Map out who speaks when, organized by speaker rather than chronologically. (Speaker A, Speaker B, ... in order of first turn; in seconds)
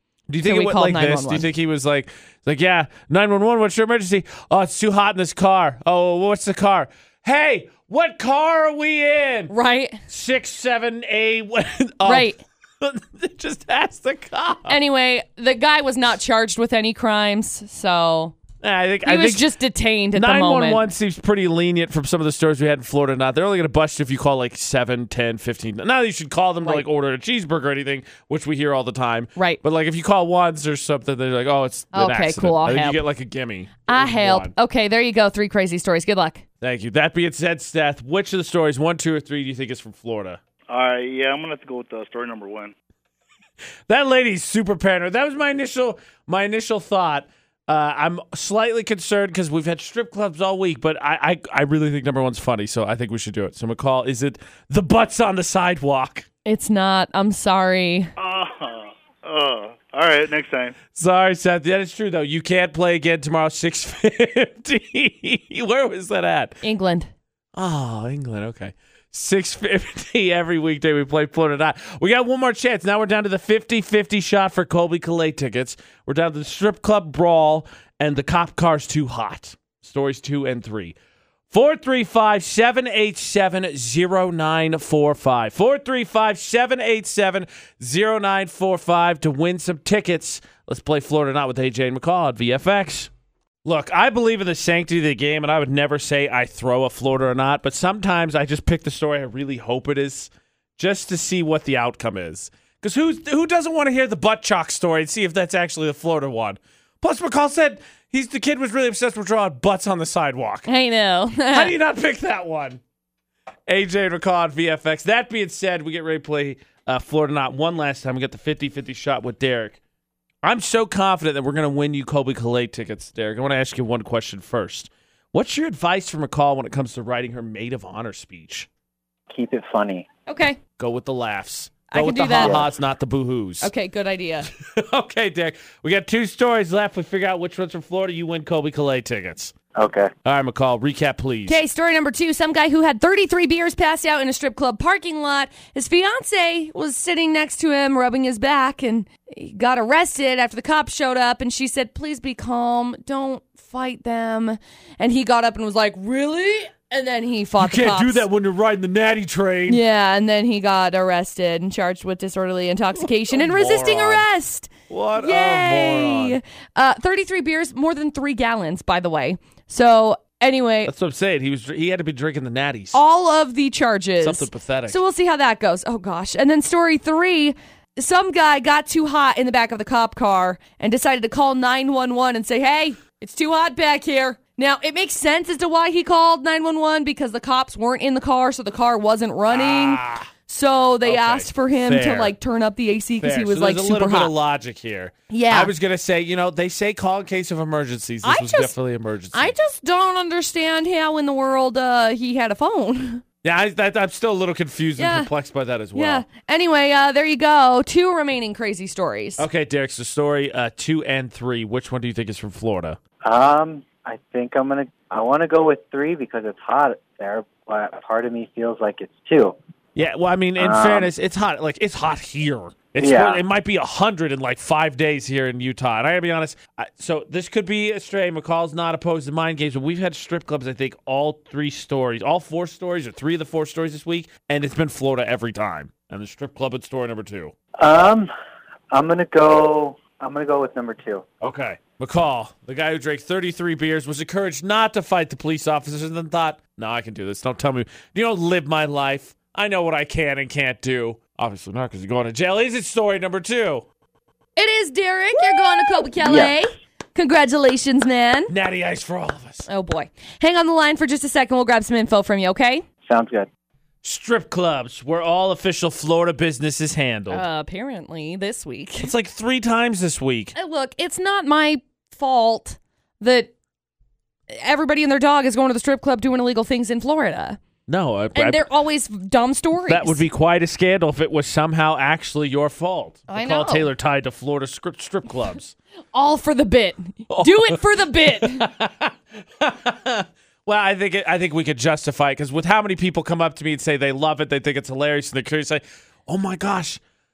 Speaker A: 0.3-9.5, 10.1-14.8, 18.6-19.4, 20.1-34.5, 36.6-40.4, 43.9-56.2, 60.9-66.6, 67.5-81.0, 81.5-93.1, 93.6-110.7, 111.5-112.8, 113.7-119.8, 120.4-128.7, 130.8-133.7, 134.5-139.5, 140.2-141.6, 157.6-159.8, 163.0-164.2, 164.9-166.4, 170.8-173.0, 174.2-175.0, 189.5-190.3, 191.0-192.3, 193.2-199.5, 203.4-206.2, 209.4-213.0, 219.9-237.5, 241.4-253.8, 258.5-259.6, 264.0-267.4, 269.0-270.5, 277.9-278.7, 279.9-285.7, 287.3-297.0
Speaker B: 0.4-1.5, 9.5-10.0, 12.0-12.4, 14.7-18.4, 19.0-20.9, 31.9-33.0, 33.9-36.4, 56.5-58.1, 66.6-67.1, 110.7-111.7, 130.3-130.6, 131.9-132.7, 133.6-134.5, 141.5-158.2, 159.7-170.9, 172.9-194.3, 195.3-195.7, 198.2-198.7, 199.3-203.2, 205.0-205.3, 205.9-209.4, 254.6-258.5, 259.6-262.9, 267.3-269.1, 270.5-273.5, 274.5-277.6, 278.3-280.2, 283.3-283.9, 286.1-288.7
Speaker C: 40.7-42.7, 58.2-60.8
Speaker D: 129.3-130.0, 132.4-132.7, 139.7-140.1, 213.2-219.6, 220.6-221.1, 223.0-223.4, 237.8-238.3, 238.9-241.2, 256.2-256.5, 263.1-263.5